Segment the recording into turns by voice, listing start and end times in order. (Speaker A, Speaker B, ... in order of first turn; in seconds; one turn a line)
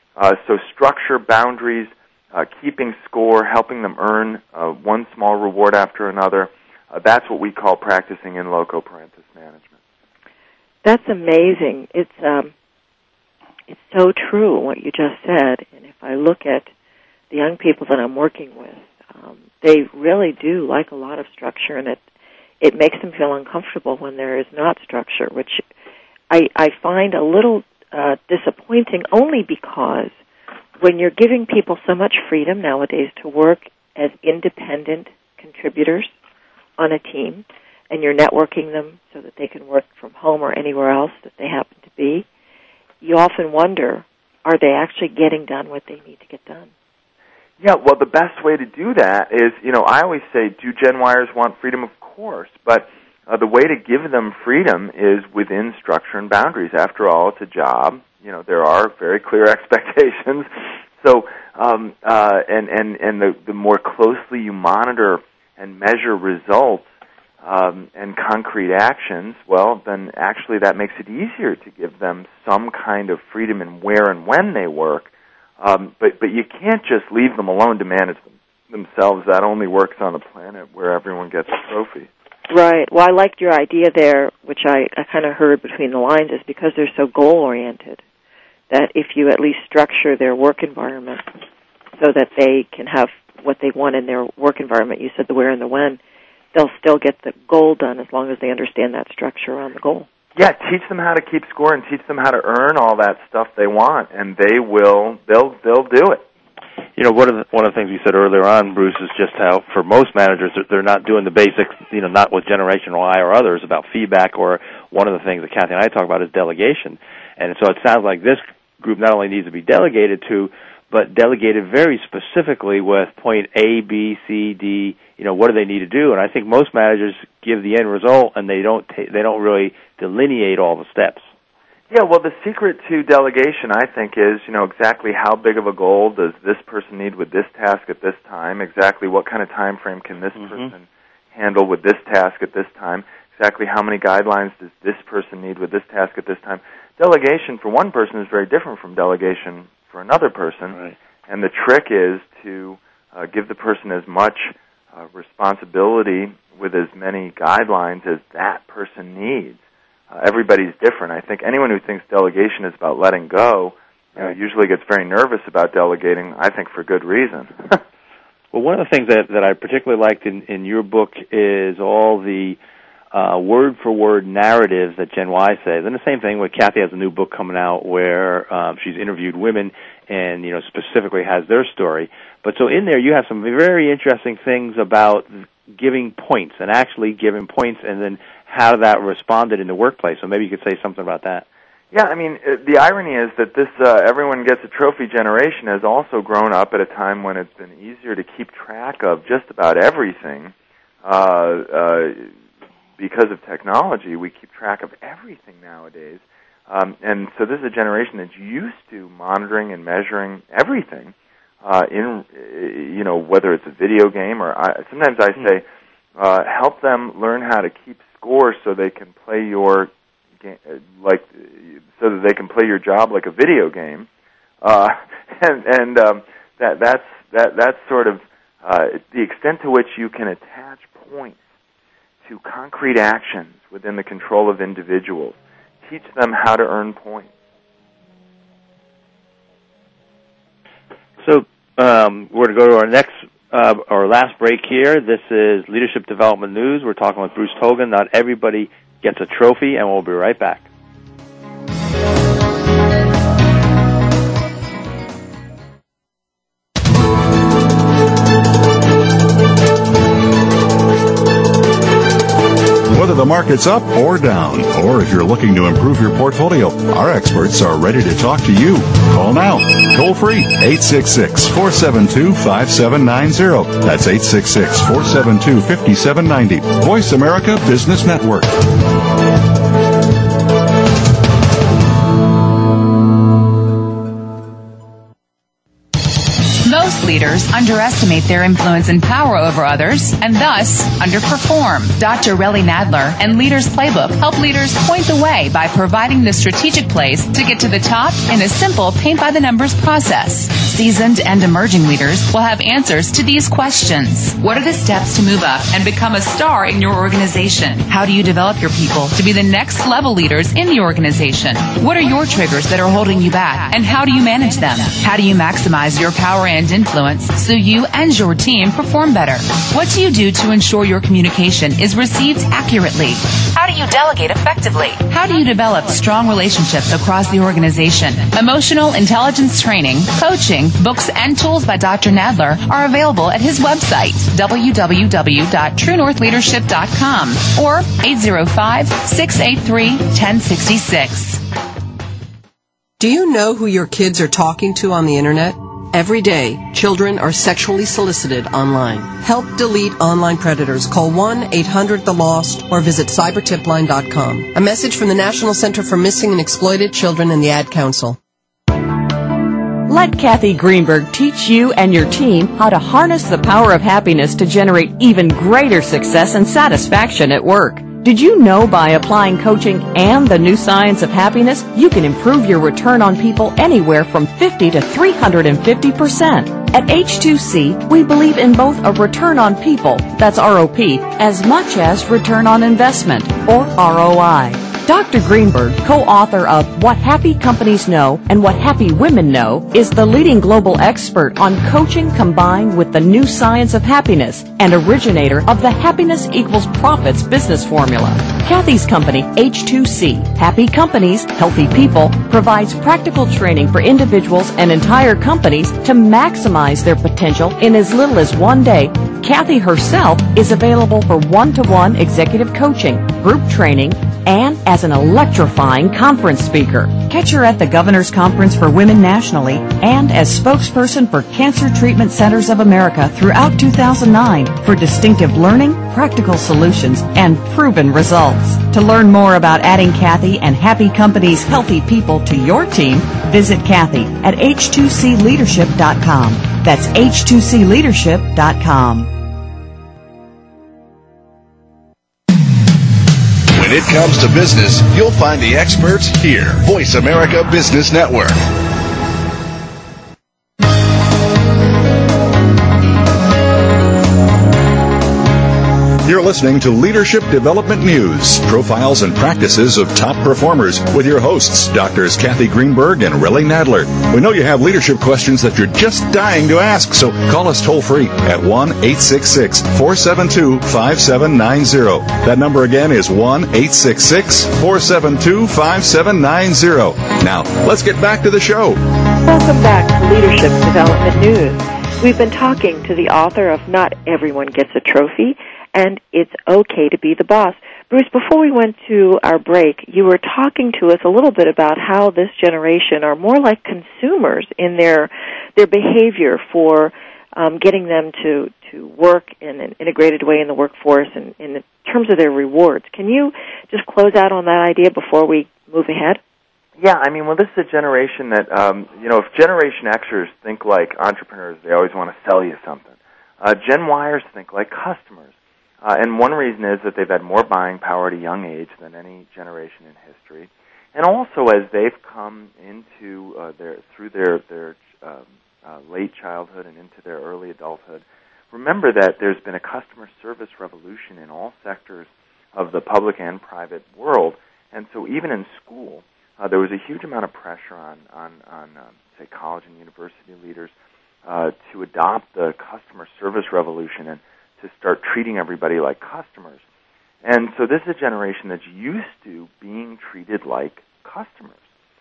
Speaker A: 0.2-9.8
Speaker B: 10.8-12.5
Speaker B: 13.7-16.7
Speaker B: 17.3-22.0
Speaker B: 22.6-25.6
Speaker B: 26.3-30.1
Speaker B: 30.8-36.1
Speaker B: 36.8-42.2
Speaker B: 43.0-46.7
Speaker A: 47.6-60.5
Speaker A: 61.0-66.8
Speaker A: 67.4-82.1
Speaker B: 82.5-88.0
Speaker B: 88.7-91.2
Speaker B: 92.0-96.0
Speaker B: 96.5-100.1
Speaker A: 100.3-106.2
Speaker C: 107.0-131.3
Speaker A: 131.9-159.6
Speaker C: 140.4-140.7
Speaker A: 160.1-167.8
Speaker C: 168.5-172.6
Speaker C: 173.1-191.4
Speaker A: 191.9-202.3
Speaker A: 203.0-215.6
Speaker A: 216.2-224.1
Speaker A: 224.6-231.4
Speaker A: 232.2-237.3
Speaker C: 241.2-250.7
Speaker D: 262.9-278.6
Speaker E: 286.6-341.4
Speaker F: 343.0-358.2
Speaker G: 359.9-439.1
Speaker H: 443.5-448.4
Speaker D: 456.0-478.8
Speaker B: 479.2-506.2
Speaker A: 506.8-515.3
Speaker A: 515.8-540.7
Speaker A: 541.2-546.6
Speaker A: 547.2-551.6